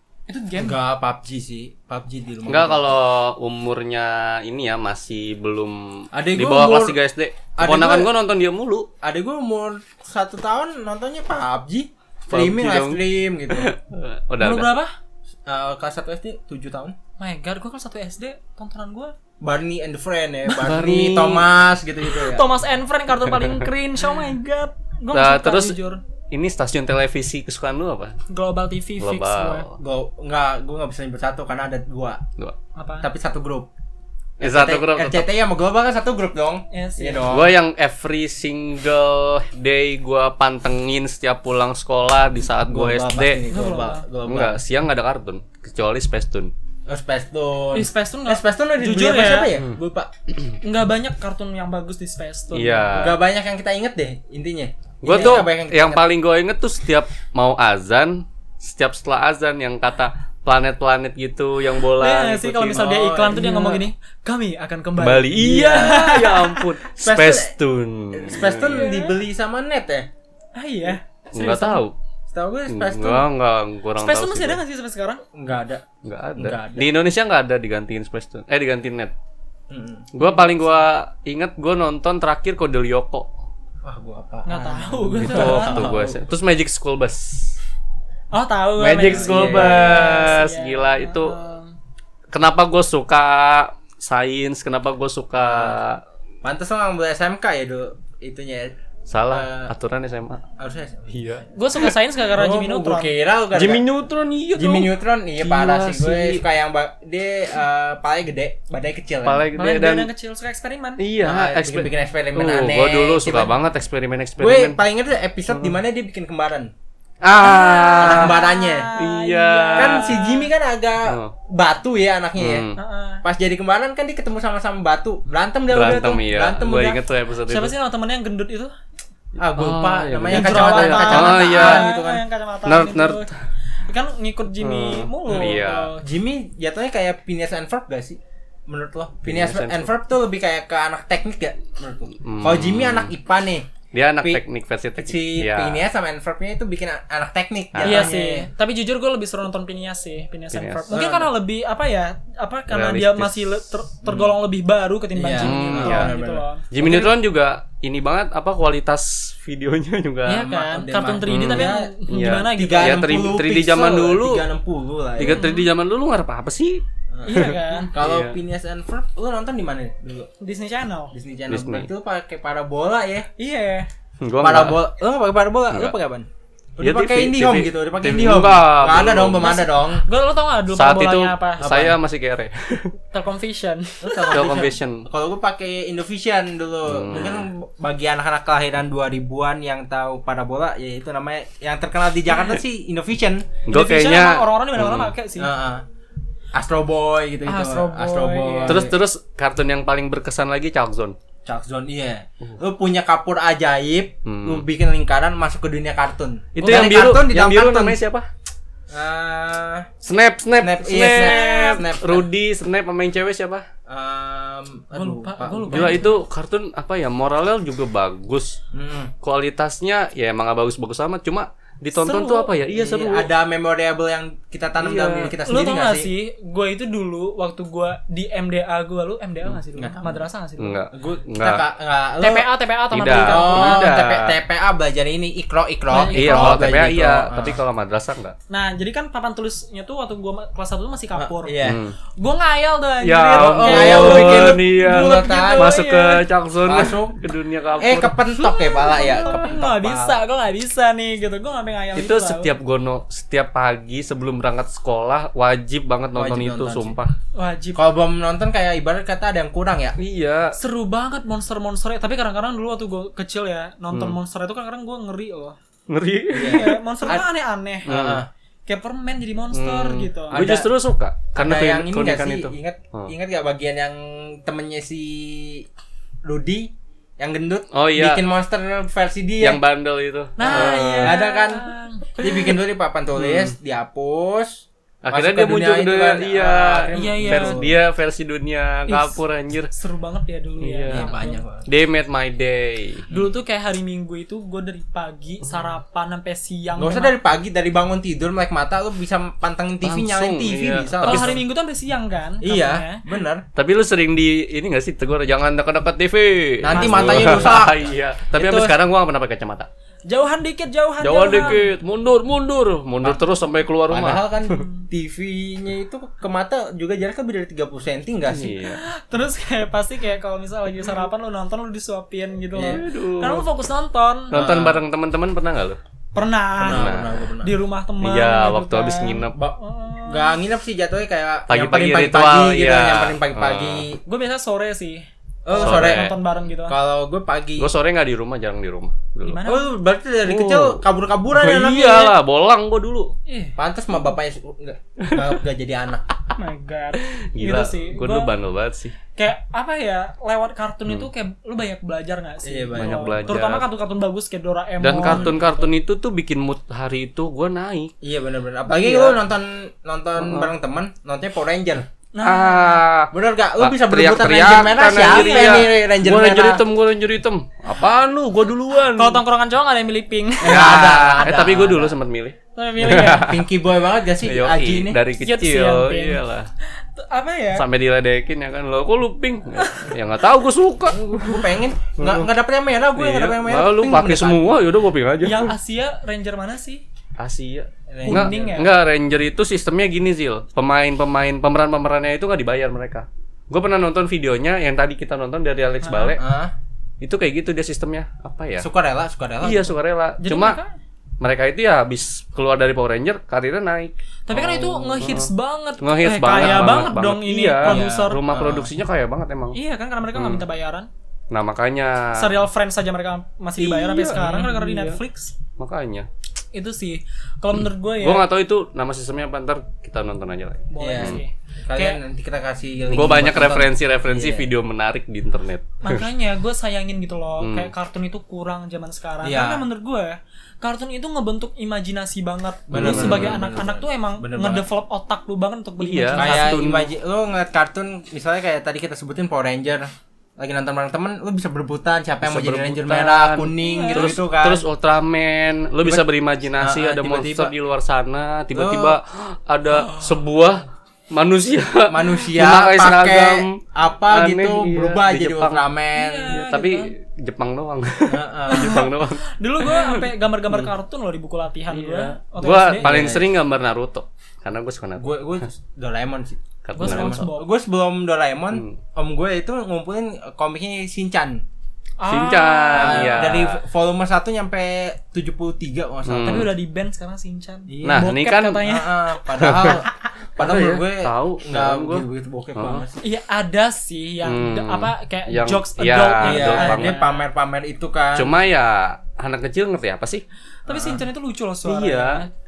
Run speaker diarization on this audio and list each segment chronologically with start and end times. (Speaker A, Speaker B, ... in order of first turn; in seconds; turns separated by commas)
Speaker A: 0.3-0.8, Speaker B: 0.6-2.8, Speaker C: 2.5-8.9, Speaker B: 6.1-7.0, Speaker B: 7.6-8.1, Speaker B: 9.0-13.7, Speaker C: 12.3-14.8, Speaker A: 14.4-14.9, Speaker B: 15.5-17.0, Speaker A: 17.2-19.1, Speaker B: 19.4-22.5, Speaker C: 20.6-21.5, Speaker A: 22.0-26.0, Speaker C: 23.3-23.6, Speaker C: 25.1-25.8, Speaker C: 26.3-28.1, Speaker A: 28.3-29.7, Speaker C: 29.0-29.8, Speaker B: 29.8-32.2, Speaker A: 32.8-33.1, Speaker B: 33.0-33.7, Speaker B: 34.4-37.5, Speaker C: 34.4-35.3, Speaker A: 36.7-37.3, Speaker C: 37.3-43.4, Speaker B: 42.7-44.6, Speaker A: 43.5-44.0, Speaker C: 44.3-46.5, Speaker B: 46.9-50.1, Speaker A: 47.7-49.6, Speaker A: 50.6-53.1, Speaker C: 52.5-53.2, Speaker B: 52.9-56.0, Speaker C: 55.0-62.8, Speaker A: 62.0-66.6, Speaker B: 62.5-63.8, Speaker C: 65.0-68.8, Speaker B: 65.4-66.2, Speaker B: 67.0-67.5, Speaker B: 68.1-70.1, Speaker A: 68.7-69.1, Speaker A: 70.5-71.8, Speaker C: 71.3-71.9, Speaker B: 72.3-73.3, Speaker C: 72.7-74.6, Speaker A: 74.0-75.2, Speaker B: 75.3-75.8, Speaker C: 76.0-79.1, Speaker B: 76.4-76.9, Speaker B: 79.7-80.1, Speaker C: 80.1-83.3, Speaker A: 80.2-80.8, Speaker B: 83.8-86.2, Speaker A: 84.5-85.9, Speaker C: 85.2-87.5, Speaker A: 88.3-91.7, Speaker C: 88.8-91.4, Speaker B: 89.0-90.4, Speaker C: 92.3-96.0, Speaker B: 95.5-95.8, Speaker B: 96.4-98.8, Speaker C: 99.1-100.4, Speaker B: 99.3-99.7, Speaker B: 100.6-101.5, Speaker C: 101.1-102.0, Speaker A: 101.5-103.1, Speaker B: 102.3-103.8, Speaker C: 103.5-106.4, Speaker B: 104.5-109.5, Speaker C: 109.2-110.1, Speaker A: 109.5-111.0, Speaker C: 111.0-114.8, Speaker B: 111.2-113.5, Speaker B: 114.4-116.7, Speaker C: 115.5-115.8, Speaker C: 117.2-118.4, Speaker A: 117.4-120.5, Speaker B: 118.0-118.9, Speaker C: 119.0-120.1, Speaker B: 119.8-122.7, Speaker C: 121.1-121.3, Speaker C: 122.4-122.8, Speaker A: 122.8-123.2, Speaker B: 123.2-127.0, Speaker C: 125.7-127.7, Speaker A: 127.5-128.7, Speaker B: 129.4-132.2, Speaker C: 129.5-131.8, Speaker A: 130.3-133.3, Speaker C: 132.7-133.3, Speaker A: 133.9-136.0, Speaker C: 134.6-135.9, Speaker B: 135.3-143.7, Speaker C: 139.2-139.9, Speaker C: 142.2-143.1, Speaker C: 143.9-145.8, Speaker B: 145.0-148.5, Speaker C: 147.7-148.1, Speaker A: 147.8-157.1, Speaker C: 150.5-150.8, Speaker B: 150.9-151.3, Speaker C: 152.7-153.6, Speaker B: 154.0-154.3, Speaker B: 155.2-156.4, Speaker C: 155.4-156.1, Speaker C: 156.7-160.5, Speaker A: 160.3-163.3, Speaker B: 160.3-165.4, Speaker C: 161.3-164.4, Speaker C: 165.2-168.4, Speaker A: 165.2-165.7, Speaker B: 167.1-170.3, Speaker A: 167.2-167.9, Speaker A: 170.4-171.1, Speaker B: 171.1-173.3, Speaker C: 171.5-171.9, Speaker A: 173.4-173.9, Speaker C: 174.2-174.8, Speaker B: 174.4-180.0, Speaker C: 176.8-179.5, Speaker A: 179.3-181.7, Speaker C: 180.7-182.9, Speaker B: 181.6-182.0, Speaker A: 183.1-184.4, Speaker B: 184.0-193.6, Speaker C: 184.3-185.1, Speaker C: 186.9-187.5, Speaker C: 193.7-195.1, Speaker A: 193.7-195.5, Speaker B: 195.4-195.8, Speaker B: 196.5-198.9, Speaker A: 197.5-198.9, Speaker C: 198.7-201.2, Speaker B: 201.4-208.0, Speaker C: 204.2-204.7, Speaker C: 206.6-208.3, Speaker B: 208.9-209.9, Speaker C: 210.0-213.7, Speaker B: 210.6-212.3, Speaker A: 211.2-211.8, Speaker B: 213.9-216.1, Speaker A: 214.9-216.1, Speaker C: 215.7-218.6, Speaker B: 218.7-219.1, Speaker C: 219.2-223.3, Speaker A: 222.0-222.5, Speaker B: 222.7-226.1, Speaker C: 224.8-225.3, Speaker A: 225.4-230.8, Speaker B: 229.8-230.2, Speaker C: 230.6-231.6, Speaker B: 230.9-232.5, Speaker A: 232.2-233.9, Speaker C: 232.9-234.4, Speaker B: 233.2-237.6, Speaker A: 235.9-236.7, Speaker C: 236.1-238.4, Speaker A: 238.5-241.6, Speaker B: 241.2-241.8, Speaker C: 241.6-241.9, Speaker A: 242.2-246.3, Speaker C: 243.0-248.2, Speaker B: 243.3-245.8, Speaker B: 246.7-247.2, Speaker B: 247.8-250.2, Speaker A: 248.3-252.6, Speaker C: 252.0-257.1, Speaker B: 256.1-257.0, Speaker A: 257.4-257.8, Speaker B: 257.8-260.0, Speaker C: 260.0-260.6, Speaker A: 260.6-265.6, Speaker C: 265.9-266.8, Speaker B: 266.3-267.3, Speaker A: 266.3-267.9, Speaker B: 267.9-268.3, Speaker C: 267.9-268.2, Speaker A: 268.7-270.4, Speaker C: 269.5-273.1, Speaker B: 270.3-270.7, Speaker B: 271.4-275.7, Speaker B: 276.2-279.6, Speaker C: 277.7-278.2, Speaker C: 279.4-281.2, Speaker A: 280.4-282.1, Speaker B: 280.4-287.8, Speaker C: 283.2-283.5, Speaker C: 285.0-289.7, Speaker A: 286.9-287.6, Speaker A: 288.9-291.4, Speaker C: 290.6-291.1, Speaker B: 290.9-291.7, Speaker C: 291.7-293.1, Speaker A: 293.1-297.1, Speaker B: 296.8-301.4, Speaker C: 299.8-301.4, Speaker A: 301.0-303.0, Speaker B: 302.4-303.4, Speaker C: 303.6-309.7, Speaker B: 306.6-308.8, Speaker A: 306.7-307.6, Speaker A: 310.1-311.7, Speaker C: 311.0-314.2, Speaker B: 313.9-318.6, Speaker A: 314.5-314.9, Speaker C: 318.3-318.8, Speaker A: 318.7-324.3, Speaker B: 322.5-322.8, Speaker C: 322.6-323.5, Speaker C: 324.3-325.8, Speaker B: 324.3-324.8, Speaker A: 326.1-330.4, Speaker B: 326.6-327.6, Speaker C: 326.7-327.2, Speaker C: 328.0-329.4, Speaker B: 329.4-334.0, Speaker C: 331.5-333.8, Speaker A: 334.1-336.8, Speaker B: 335.4-336.1, Speaker C: 335.6-336.1, Speaker B: 336.7-337.7, Speaker C: 337.6-339.4, Speaker A: 339.2-339.7, Speaker B: 339.4-342.2, Speaker C: 340.2-343.1, Speaker A: 343.3-343.6, Speaker B: 343.6-346.0, Speaker C: 345.0-345.4, Speaker A: 346.3-348.3, Speaker C: 347.0-348.9, Speaker A: 349.1-355.4, Speaker B: 352.4-353.4, Speaker C: 352.8-353.7, Speaker C: 354.8-357.9, Speaker B: 355.0-355.5, Speaker B: 358.0-361.9, Speaker A: 358.7-359.1, Speaker C: 360.2-360.5, Speaker A: 362.1-362.8, Speaker C: 362.2-369.2, Speaker B: 363.1-366.6, Speaker A: 364.8-365.7, Speaker A: 368.9-371.0, Speaker B: 370.4-372.0, Speaker C: 370.4-373.5, Speaker A: 372.6-373.3, Speaker B: 373.2-375.0, Speaker C: 374.2-376.5, Speaker A: 375.2-376.2, Speaker A: 377.0-377.7, Speaker C: 377.6-382.3, Speaker A: 379.6-379.9, Speaker B: 380.9-384.6, Speaker C: 383.0-385.5, Speaker A: 385.2-386.8, Speaker C: 387.2-396.2, Speaker B: 387.9-388.5, Speaker A: 388.0-388.7, Speaker A: 395.8-396.2, Speaker B: 396.2-396.5, Speaker C: 397.0-398.7, Speaker B: 398.6-399.8, Speaker C: 399.4-400.6, Speaker A: 400.2-400.7, Speaker C: 401.2-405.3, Speaker A: 404.3-408.2, Speaker C: 405.8-409.6, Speaker B: 406.3-406.9, Speaker B: 407.6-408.7, Speaker A: 409.5-410.9, Speaker C: 410.1-410.4, Speaker C: 411.3-412.4, Speaker A: 412.1-415.4, Speaker C: 413.6-415.0, Speaker C: 415.6-416.1, Speaker A: 416.5-418.2, Speaker C: 418.0-421.2, Speaker A: 420.7-422.0, Speaker B: 420.8-424.5, Speaker C: 422.9-426.1, Speaker A: 425.8-436.6, Speaker C: 427.4-427.7, Speaker B: 429.2-429.6, Speaker B: 432.7-434.6, Speaker C: 432.7-433.4, Speaker C: 435.8-436.9, Speaker B: 436.2-444.6, Speaker C: 442.2-455.7, Speaker A: 443.6-444.2, Speaker B: 446.6-447.5, Speaker B: 448.5-449.0, Speaker A: 449.7-450.2, Speaker B: 451.9-456.4, Speaker A: 455.9-456.9, Speaker C: 456.3-460.7, Speaker B: 458.1-458.8, Speaker A: 458.5-463.2, Speaker C: 461.7-465.4, Speaker B: 462.8-463.3, Speaker B: 465.0-471.4, Speaker C: 466.6-467.3, Speaker A: 466.8-467.5, Speaker C: 468.5-468.8, Speaker A: 472.0-473.4, Speaker C: 472.1-473.6, Speaker B: 472.7-476.5, Speaker C: 476.1-476.5, Speaker A: 476.2-478.9, Speaker B: 477.7-483.0, Speaker C: 477.8-478.7, Speaker C: 479.4-479.8, Speaker C: 480.4-482.8, Speaker A: 483.0-487.2, Speaker C: 484.2-487.0, Speaker B: 486.2-488.4, Speaker C: 488.1-490.2, Speaker B: 490.7-491.0, Speaker A: 490.7-492.3, Speaker C: 491.6-492.2